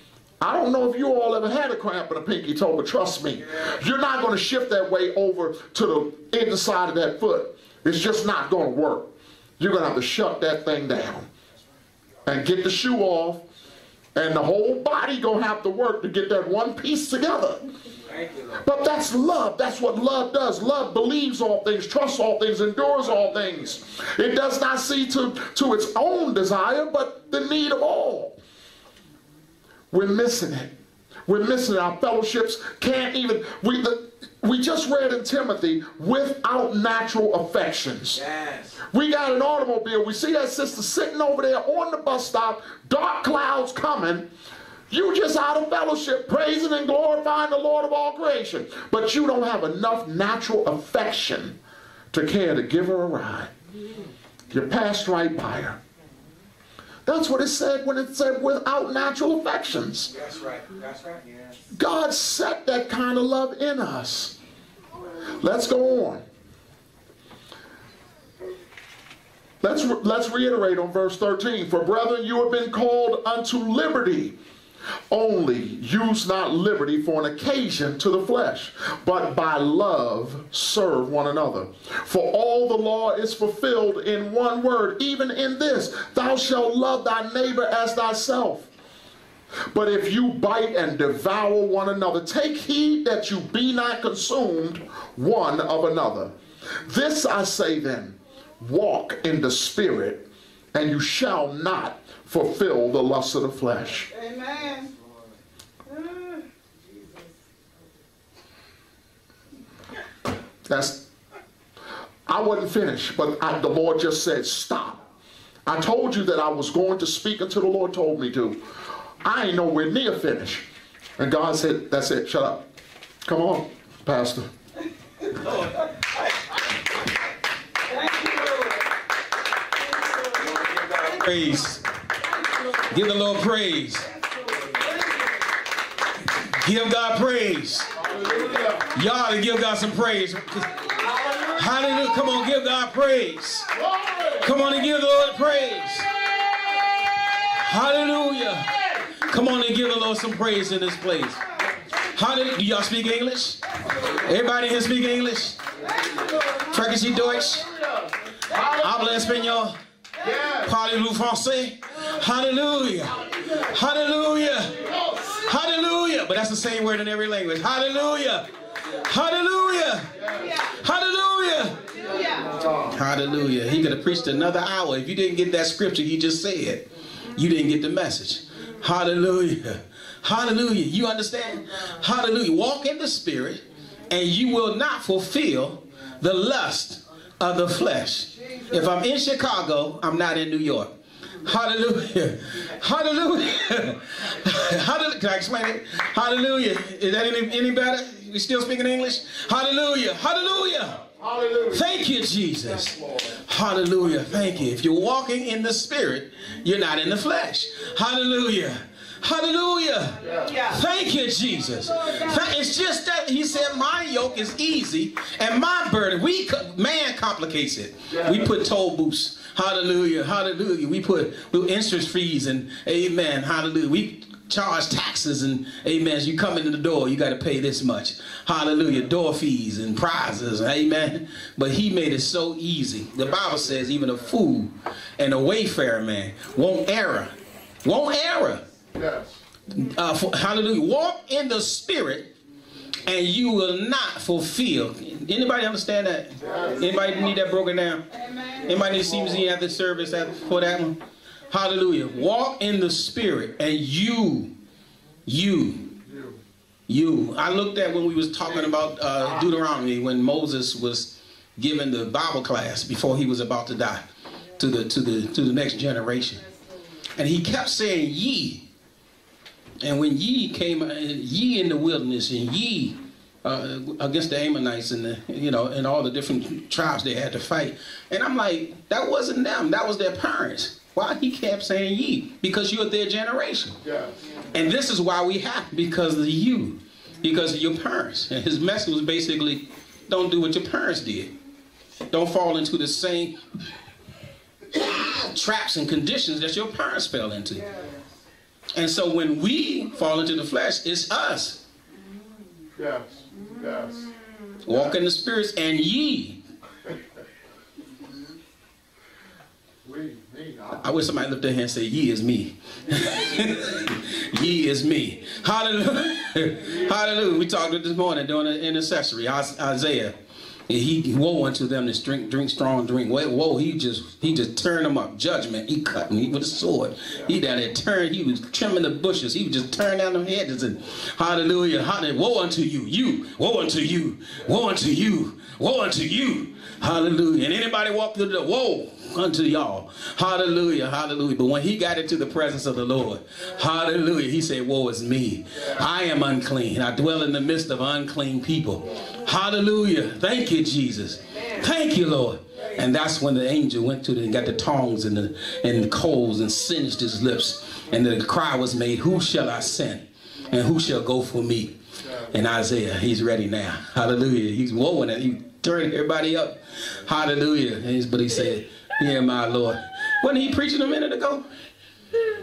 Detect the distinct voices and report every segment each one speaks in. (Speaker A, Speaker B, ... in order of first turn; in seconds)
Speaker A: 0.4-11.3, 12.2-13.4, 14.2-17.6, 18.6-28.4, 29.9-30.7, 31.3-38.2, 38.8-44.3, 44.9-51.6, 52.1-53.5, 54.5-55.8, 57.0-60.1, 61.7-64.4, 65.4-66.2, 69.6-74.4, 75.1-88.7, 89.7-104.1, 110.7-111.1, 112.3-115.0, 115.7-118.6, 119.2-120.7, 121.2-122.7, 123.2-124.5, 138.0-138.8, 141.1-141.6, 143.8-144.5, 157.8-158.7, 160.2-160.7, 164.9-165.3, 201.2-201.9, 202.9-203.3, 210.2-210.5, 238.9-239.4, 246.5-246.8, 283.9-284.1, 302.8-304.1, 309.9-310.8
Speaker B: 18.1-18.6, 38.1-38.8, 60.1-61.5, 125.3-125.9, 130.7-131.8, 132.9-134.1, 136.6-138.0, 138.8-143.8, 144.4-146.1, 147.4-151.4, 152.0-155.6, 156.7-157.7, 158.6-159.8, 160.5-168.5, 169.0-171.8, 172.6-201.0, 201.7-238.7, 239.7-242.3, 243.1-248.1, 248.6-251.0, 251.5-254.5, 255.3-256.0, 256.9-264.1, 264.6-266.4, 267.2-268.6, 269.8-283.8, 284.5-291.3, 292.1-293.4, 294.8-297.7, 298.7-301.6, 304.6-306.4, 310.8-320.1, 320.7-371.5
Speaker C: 104.1-104.9, 105.9-107.2, 127.9-128.8, 132.5-132.9, 134.6-134.9, 156.0-156.7, 170.3-170.7, 171.9-172.6, 248.2-248.7